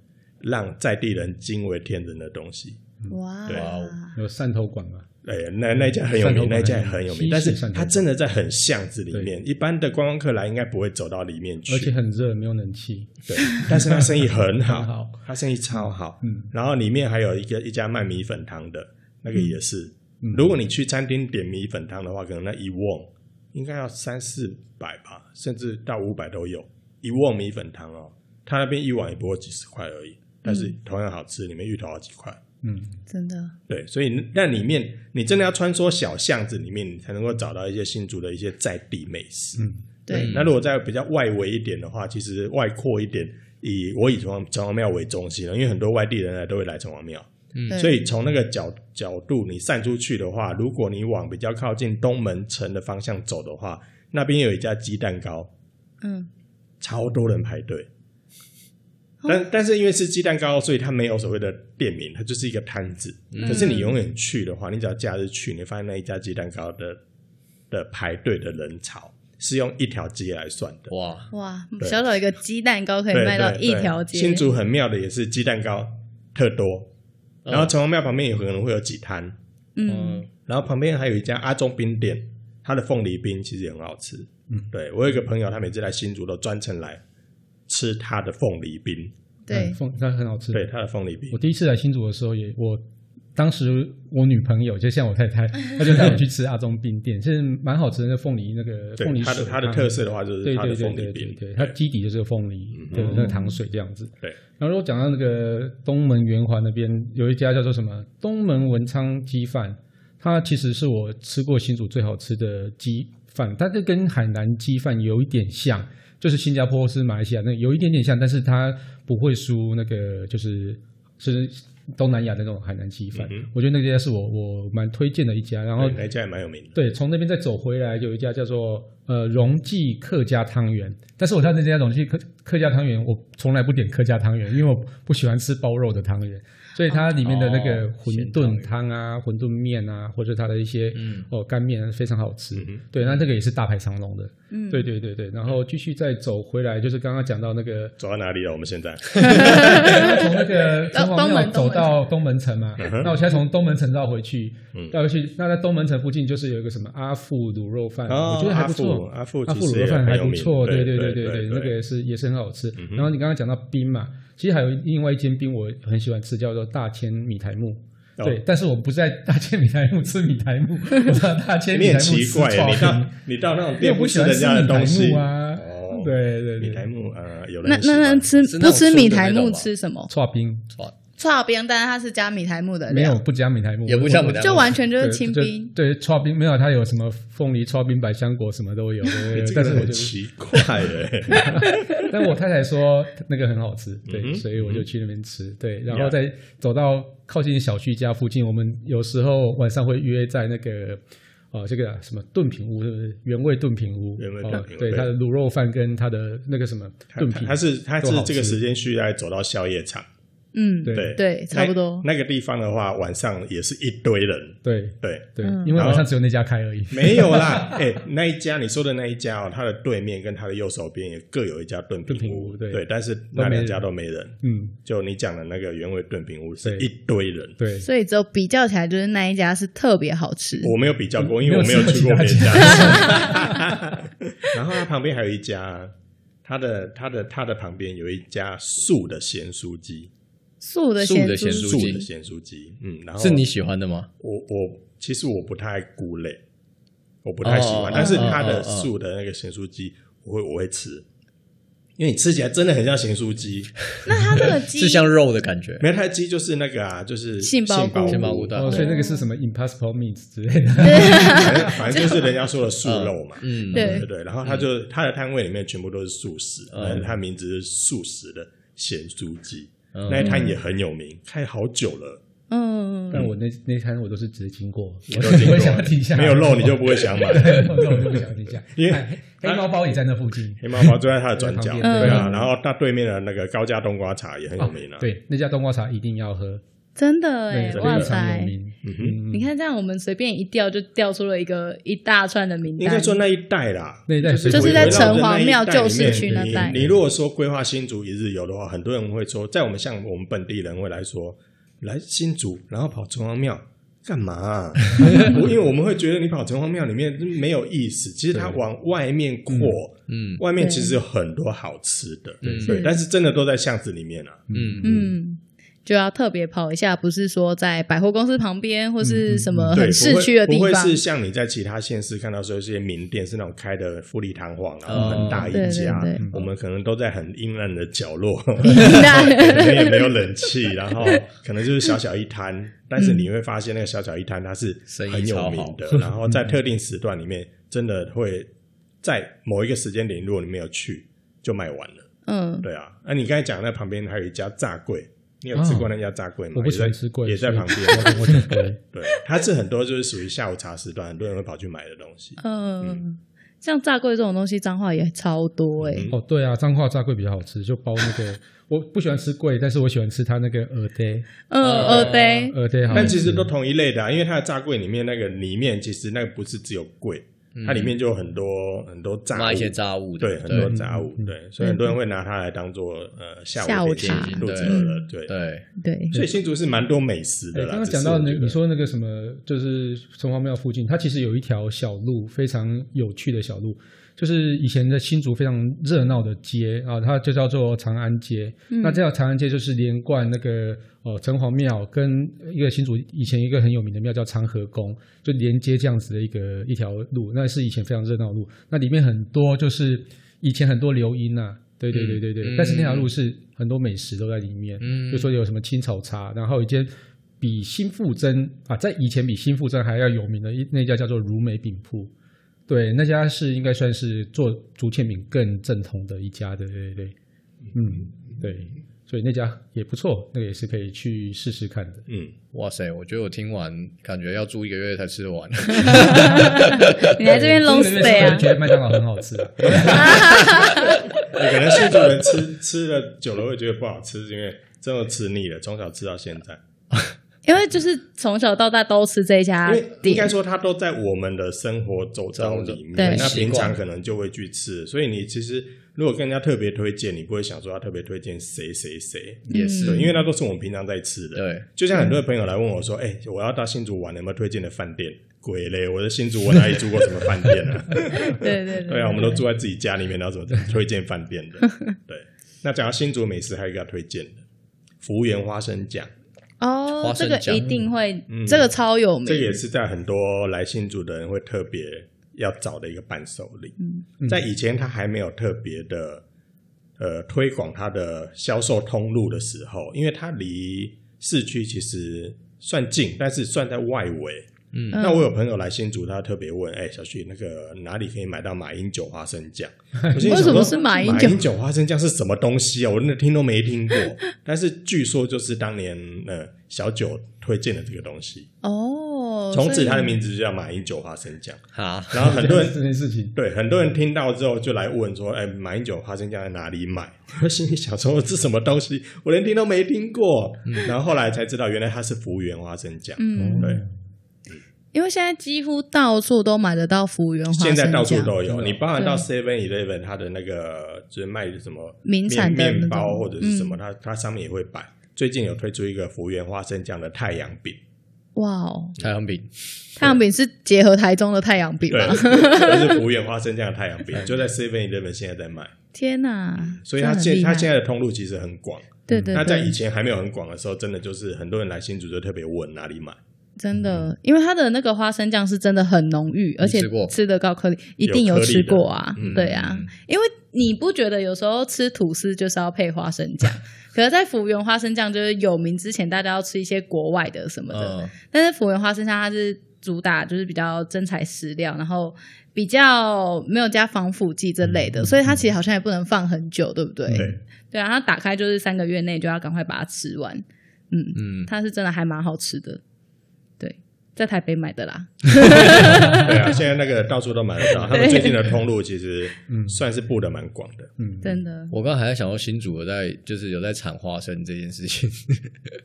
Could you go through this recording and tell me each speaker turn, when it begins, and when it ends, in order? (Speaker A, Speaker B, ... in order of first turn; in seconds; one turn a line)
Speaker A: 0.4-2.8
Speaker B: 3.1-4.2
Speaker A: 3.5-3.7
Speaker C: 3.5-4.0
Speaker D: 4.1-5.1
Speaker A: 5.2-11.9
Speaker D: 6.0-8.1
Speaker D: 11.7-14.1
Speaker A: 13.3-32.4
Speaker D: 14.6-15.2
Speaker D: 16.2-16.5
Speaker D: 20.2-20.5
Speaker B: 30.5-30.7
Speaker D: 32.6-33.0
Speaker B: 33.1-33.5
Speaker A: 33.7-55.5
Speaker B: 40.1-40.3
Speaker C: 40.1-40.5
Speaker C: 47.5-47.9
Speaker B: 47.7-48.0
Speaker B: 56.0-56.3
Speaker A: 56.8-57.9
Speaker A: 59.2-67.0
Speaker C: 63.3-63.8
Speaker B: 63.4-63.9
Speaker A: 67.7-70.9
Speaker C: 70.9-71.3
Speaker B: 71.3-74.5
Speaker A: 73.1-76.9
Speaker C: 77.4-77.7
Speaker A: 77.5-79.4
Speaker B: 79.8-80.2
Speaker C: 79.8-80.3
Speaker A: 80.5-87.0
Speaker A: 87.7-89.1
Speaker B: 89.5-89.8
Speaker D: 89.5-90.7
Speaker A: 90.5-91.4
Speaker D: 91.3-92.8
Speaker D: 93.3-126.0
Speaker A: 99.0-101.7
Speaker A: 102.7-103.3
Speaker B: 103.1-103.5
Speaker A: 123.1-123.5
Speaker A: 125.8-126.8
Speaker D: 126.7-148.0
Speaker C: 137.2-138.7
Speaker C: 140.9-141.3
Speaker A: 142.5-142.8
Speaker B: 144.5-144.9
Speaker A: 148.0-149.9
Speaker B: 149.2-150.1
Speaker D: 149.5-173.2
Speaker B: 150.9-151.9
Speaker A: 152.8-153.1
Speaker A: 158.1-161.7
Speaker A: 162.8-163.1
Speaker A: 171.7-178.3
Speaker D: 173.8-176.9
Speaker B: 177.6-180.1
Speaker C: 178.4-179.7
Speaker D: 180.1-180.7
Speaker B: 181.2-183.2
Speaker D: 182.9-190.1
Speaker C: 183.9-184.8
Speaker B: 184.4-185.7
Speaker A: 189.3-191.8
Speaker D: 191.4-201.0
Speaker A: 194.1-194.8
Speaker A: 195.9-196.1
Speaker D: 201.5-208.6
Speaker A: 204.2-205.1
Speaker A: 207.1-210.1
Speaker B: 210.5-212.1
Speaker D: 210.8-211.1
Speaker A: 210.9-216.1
Speaker D: 214.6-217.8
Speaker B: 215.4-215.8
Speaker A: 216.9-227.6
Speaker D: 222.1-223.8
Speaker D: 224.4-224.7
Speaker D: 226.6-226.9
Speaker D: 227.6-227.9
Speaker B: 227.8-230.7
Speaker A: 230.6-235.9
Speaker D: 231.2-233.7
Speaker B: 232.8-233.4
Speaker A: 236.4-240.1
Speaker B: 240.6-241.9
Speaker C: 241.0-242.1
Speaker A: 241.5-243.4
Speaker C: 243.2-244.1
Speaker A: 244.2-246.4
Speaker A: 247.2-251.0
Speaker C: 247.4-248.9
Speaker B: 247.9-248.2
Speaker A: 252.0-253.9
Speaker C: 253.9-255.9
Speaker B: 254.0-255.1
Speaker A: 255.8-258.6
Speaker B: 257.4-259.2
Speaker C: 258.0-258.9
Speaker D: 258.5-261.7
Speaker B: 260.8-262.2
Speaker A: 260.9-272.2
Speaker C: 262.8-264.6
Speaker B: 263.7-264.1
Speaker C: 266.7-267.1
Speaker C: 269.9-270.4
Speaker B: 270.1-270.6
Speaker B: 272.5-273.2
Speaker D: 273.1-282.4
Speaker A: 275.1-279.9
Speaker A: 280.6-285.1
Speaker B: 281.8-282.4
Speaker D: 284.6-286.6
Speaker B: 286.9-288.5
Speaker D: 287.5-289.5
Speaker A: 287.7-288.1
Speaker A: 288.8-289.2
Speaker B: 289.3-293.2
Speaker A: 292.8-314.5
Speaker D: 294.1-295.3
Speaker C: 294.3-294.6
Speaker B: 294.5-296.7
Speaker D: 296.0-296.9
Speaker D: 308.3-308.6
Speaker D: 309.5-309.8
Speaker C: 310.1-310.4
Speaker B: 310.6-311.0
Speaker D: 312.4-312.7
Speaker C: 312.4-312.8
Speaker B: 312.7-312.9
Speaker D: 314.5-315.1
Speaker C: 314.5-315.0
Speaker B: 314.8-321.0
Speaker D: 319.0-319.8
Speaker A: 319.7-338.5
Speaker C: 324.9-325.8
Speaker B: 325.5-326.2
Speaker D: 326.1-326.4
Speaker B: 328.6-330.1
Speaker C: 328.7-329.1
Speaker B: 333.0-333.2
Speaker C: 334.9-336.0
Speaker D: 336.2-336.5
Speaker A: 339.0-342.1
Speaker B: 342.3-342.6
Speaker A: 342.6-353.0
Speaker D: 345.5-345.9
Speaker D: 346.5-348.8
Speaker B: 352.4-356.1
Speaker A: 355.8-356.1
Speaker D: 356.1-361.3
Speaker B: 361.5-362.6
Speaker C: 361.6-363.1
Speaker A: 361.8-362.1
Speaker D: 362.5-363.5
Speaker A: 362.9-375.3
Speaker C: 367.5-367.9
Speaker C: 369.3-370.7
Speaker D: 370.5-371.3
Speaker B: 371.6-371.9
Speaker B: 373.6-375.1
Speaker C: 374.0-375.6
Speaker B: 375.8-376.2
Speaker A: 376.1-378.6
Speaker D: 377.5-412.1
Speaker B: 388.7-389.0
Speaker C: 401.9-403.1
Speaker C: 404.8-405.3
Speaker D: 412.7-417.1
Speaker D: 417.7-422.1
Speaker A: 422.1-422.3
Speaker C: 422.5-427.4
Speaker B: 425.9-428.5
Speaker D: 426.1-426.4
Speaker D: 427.2-430.3
Speaker B: 429.7-431.0
Speaker C: 429.7-430.4
Speaker A: 431.2-436.6
Speaker B: 437.4-440.3
Speaker A: 439.6-464.4
Speaker C: 442.3-443.8
Speaker B: 442.9-443.3
Speaker B: 449.5-450.1
Speaker C: 449.5-450.2
Speaker C: 451.4-451.7
Speaker B: 458.2-459.4
Speaker A: 465.0-466.1
Speaker B: 466.6-469.6
Speaker C: 467.0-467.9
Speaker A: 468.3-468.7
Speaker A: 469.2-473.7
Speaker A: 474.3-476.2
Speaker A: 477.0-498.5
Speaker C: 484.7-485.1
Speaker B: 484.9-485.2
Speaker D: 490.0-490.2
Speaker B: 490.2-491.4
Speaker B: 498.6-500.2
Speaker A: 499.5-502.8
Speaker C: 501.7-502.4
Speaker D: 502.2-503.3
Speaker A: 503.3-513.8
Speaker C: 510.7-510.9
Speaker B: 513.2-513.8
Speaker D: 513.4-513.9
Speaker B: 514.9-518.4
Speaker A: 517.5-527.8
Speaker D: 518.5-518.8
Speaker B: 519.0-519.2
Speaker B: 522.0-523.8
Speaker B: 528.3-529.0
Speaker C: 529.0-530.1
Speaker B: 530.0-533.0
Speaker A: 531.9-535.7
Speaker C: 534.2-534.4
Speaker B: 535.9-537.7
Speaker A: 536.6-543.2
Speaker D: 539.1-539.5
Speaker B: 539.1-539.8
Speaker B: 543.6-572.8
Speaker C: 546.6-547.1
Speaker A: 548.0-549.5
Speaker C: 549.2-549.9
Speaker C: 557.7-558.1
Speaker D: 567.1-567.3
Speaker A: 567.1-567.4
Speaker C: 571.1-571.5
Speaker B: 573.6-576.4
Speaker A: 576.0-580.9
Speaker B: 577.9-578.4
Speaker D: 579.5-579.8
Speaker D: 581.0-581.4
Speaker B: 581.2-581.7
Speaker C: 581.7-585.5